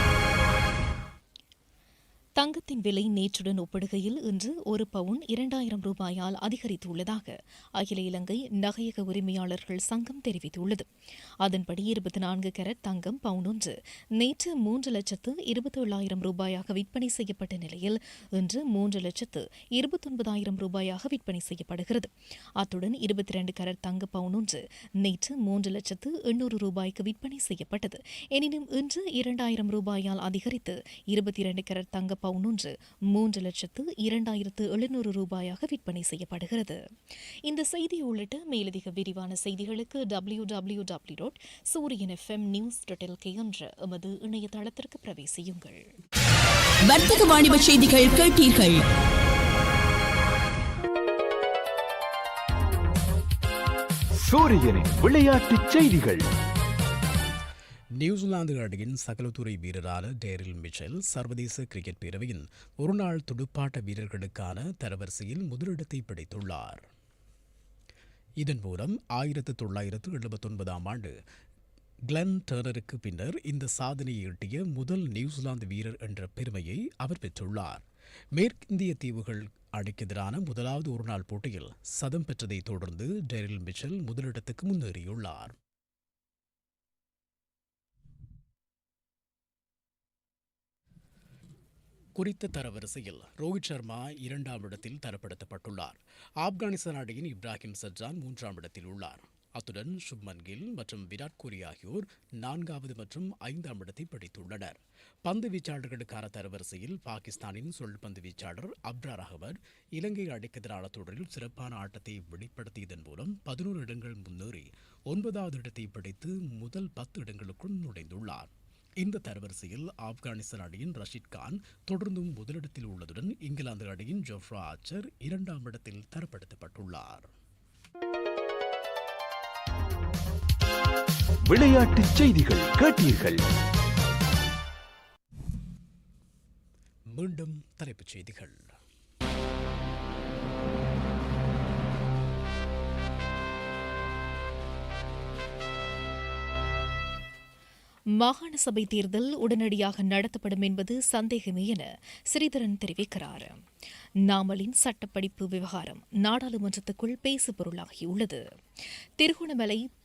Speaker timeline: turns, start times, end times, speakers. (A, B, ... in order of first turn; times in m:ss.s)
0:02.4-0:10.9 A
0:11.4-0:36.8 A
0:37.5-0:45.9 A
0:46.8-0:48.8 B
0:54.2-0:56.2 C
0:58.0-1:06.8 D
1:08.4-1:11.1 D
1:12.1-1:17.8 D
1:18.3-1:25.6 D
1:32.2-2:07.3 D
2:11.5-2:13.4 C
2:17.1-2:18.8 D
2:28.2-2:33.6 A
2:34.3-2:38.4 A
2:39.2-2:39.8 A